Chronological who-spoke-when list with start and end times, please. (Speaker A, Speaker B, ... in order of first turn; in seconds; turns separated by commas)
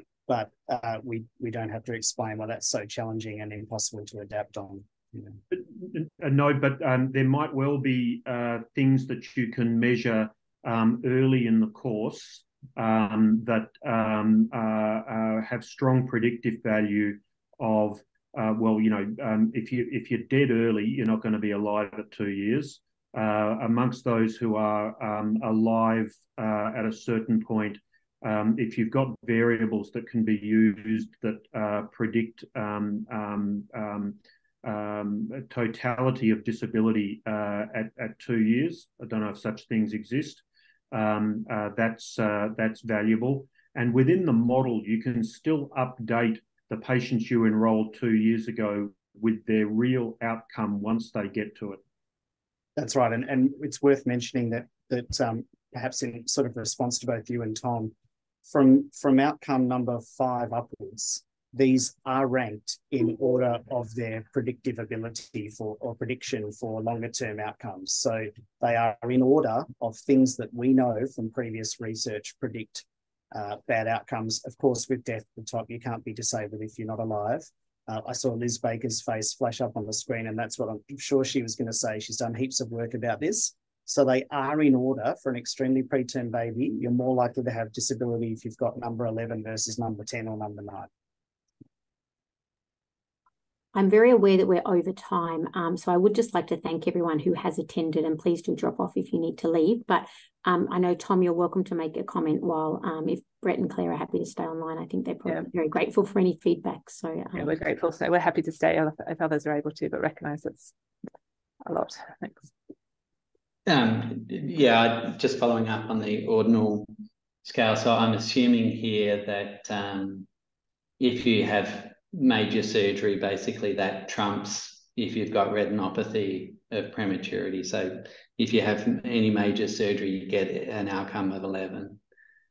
Speaker A: 0.3-5.4, Speaker B: 5.5-51.8, Speaker A: 52.8-57.9, Speaker A: 58.4-90.9, Speaker C: 93.7-107.5, Speaker D: 107.3-110.7, Speaker D: 111.7-112.5, Speaker E: 113.7-116.9, Speaker E: 117.4-120.3, Speaker E: 121.0-132.0